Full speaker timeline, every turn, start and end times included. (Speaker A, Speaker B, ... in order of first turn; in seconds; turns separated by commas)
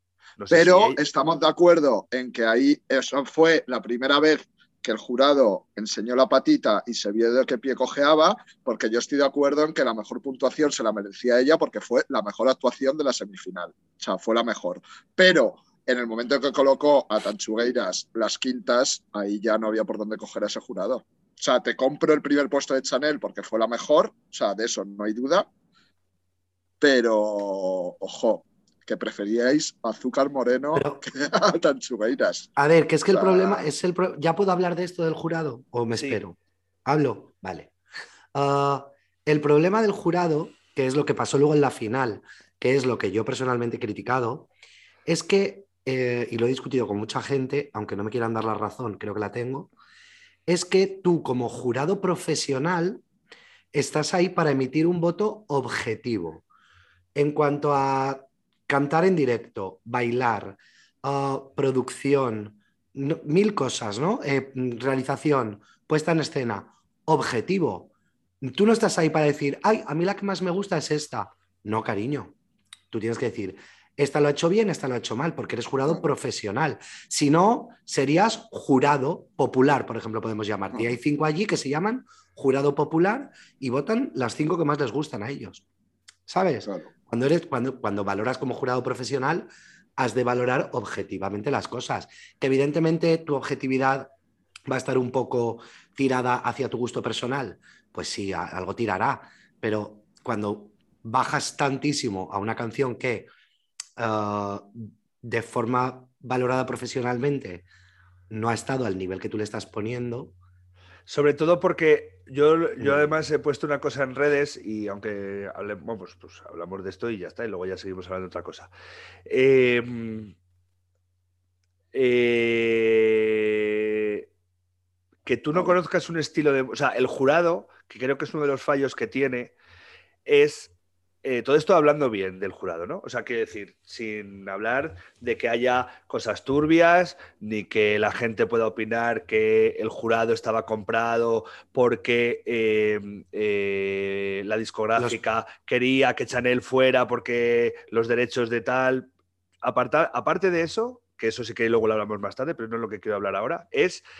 Speaker A: 0.4-1.0, Speaker B: 0.5-25.5, Speaker B: 26.8-32.5, Speaker C: 30.7-31.0, Speaker C: 32.5-37.7, Speaker B: 33.1-33.7, Speaker A: 35.9-36.2, Speaker C: 38.3-44.5, Speaker C: 45.0-49.7, Speaker C: 50.5-53.0, Speaker C: 53.7-56.4, Speaker C: 57.1-67.9, Speaker C: 68.4-72.3, Speaker C: 72.9-85.6, Speaker C: 86.3-94.1, Speaker C: 94.7-103.3, Speaker C: 104.0-107.7, Speaker C: 108.3-110.3, Speaker A: 111.1-118.7, Speaker C: 112.8-113.1, Speaker A: 119.3-120.3, Speaker A: 121.9-124.2, Speaker A: 125.2-129.5, Speaker A: 130.2-130.7, Speaker A: 131.2-149.1, Speaker A: 149.6-154.0